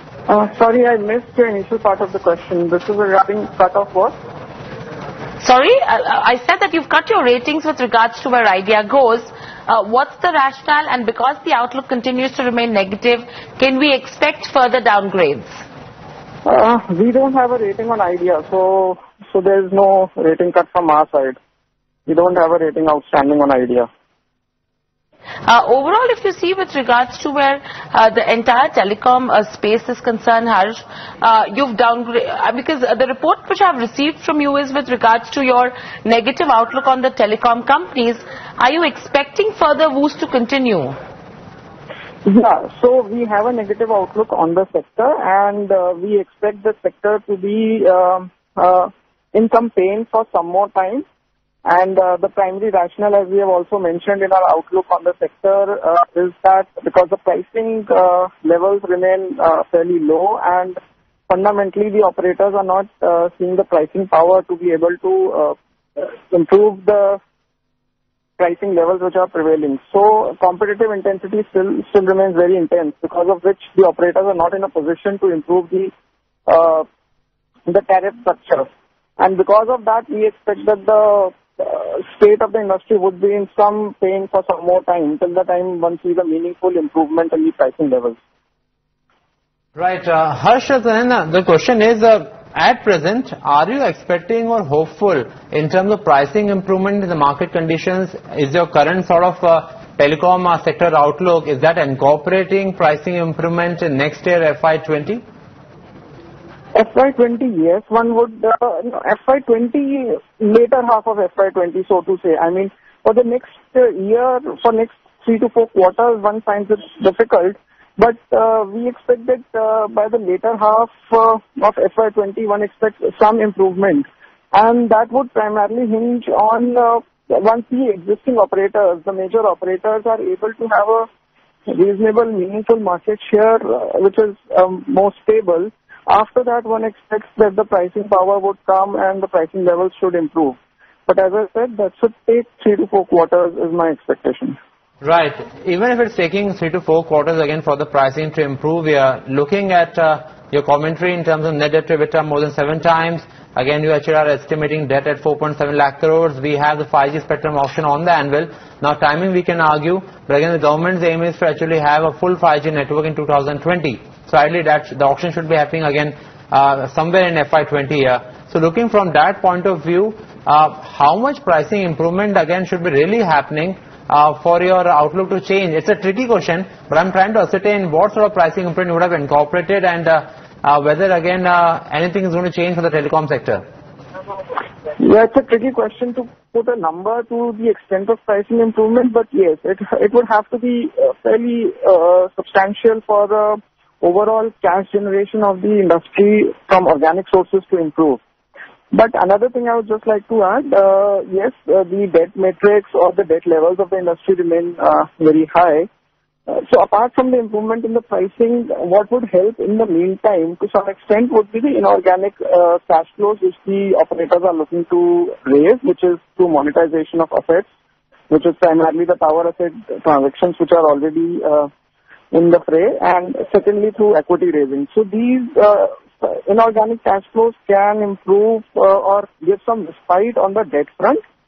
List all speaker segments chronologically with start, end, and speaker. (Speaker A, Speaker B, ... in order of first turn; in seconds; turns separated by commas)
Speaker A: 0.3-4.1, Speaker B: 5.4-15.6, Speaker A: 16.4-21.4, Speaker A: 22.1-23.9, Speaker B: 25.4-41.0, Speaker A: 42.2-51.0, Speaker A: 51.6-60.8, Speaker A: 61.3-67.2, Speaker A: 68.4-75.9, Speaker A: 76.5-76.8, Speaker A: 77.7-78.7, Speaker A: 79.2-88.2, Speaker C: 89.8-105.2, Speaker A: 106.7-131.1, Speaker A: 131.7-140.6, Speaker A: 141.1-144.6, Speaker C: 145.0-183.6, Speaker A: 185.0-198.2, Speaker A: 198.9-205.9, Speaker A: 206.5-217.7, Speaker A: 218.3-221.7, Speaker A: 222.3-231.2